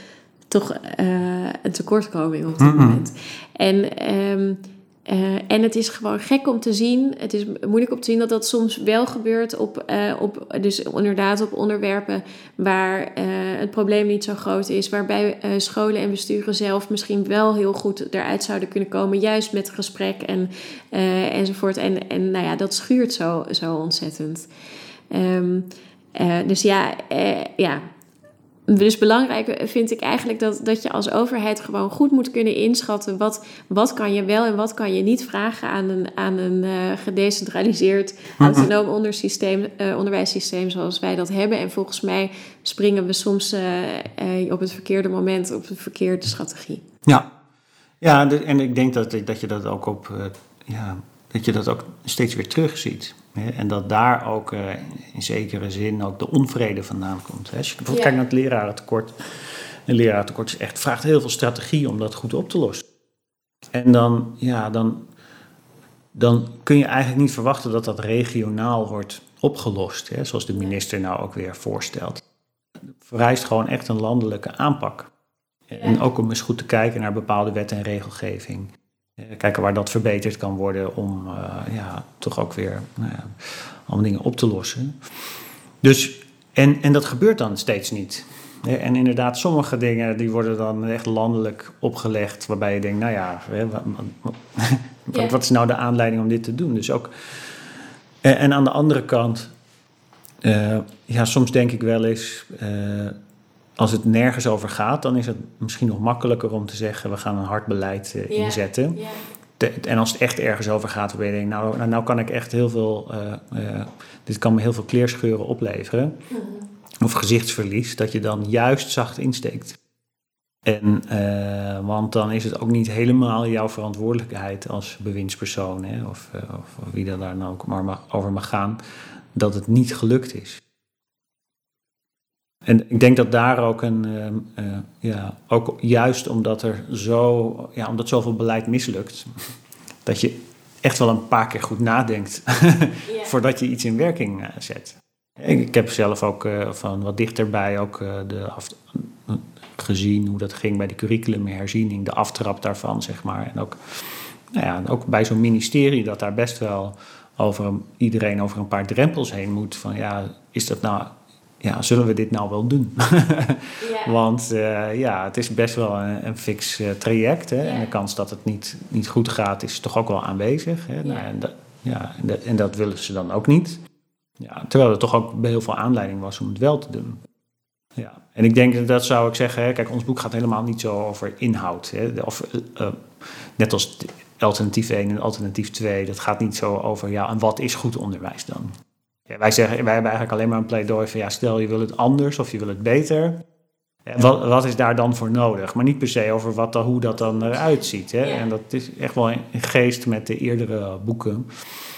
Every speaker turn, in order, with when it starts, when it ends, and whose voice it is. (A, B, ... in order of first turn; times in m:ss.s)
0:00.5-0:24.5 A
0:02.6-0:03.0 B
0:25.1-0:27.8 A
0:28.7-0:46.8 A
0:38.4-0:38.7 B
0:47.0-0:47.3 B
0:48.0-0:59.2 B
0:59.9-1:02.8 B
1:03.7-1:05.0 B
1:06.1-1:12.2 B
1:13.0-1:15.1 B
1:15.7-1:24.9 B
1:25.8-1:37.6 B
1:38.2-1:39.5 B
1:40.4-1:43.2 B
1:43.8-1:49.0 B
1:48.3-1:49.2 A
1:49.6-1:56.1 B
1:56.3-1:56.6 A
1:57.0-1:59.8 B
2:00.6-2:08.8 B
2:09.3-2:10.6 B
2:12.6-2:19.3 B
2:20.0-2:53.8 B
2:43.8-2:44.1 A
2:54.4-2:57.2 B
2:58.0-3:08.7 B
3:09.3-3:13.4 B
3:14.0-3:21.5 B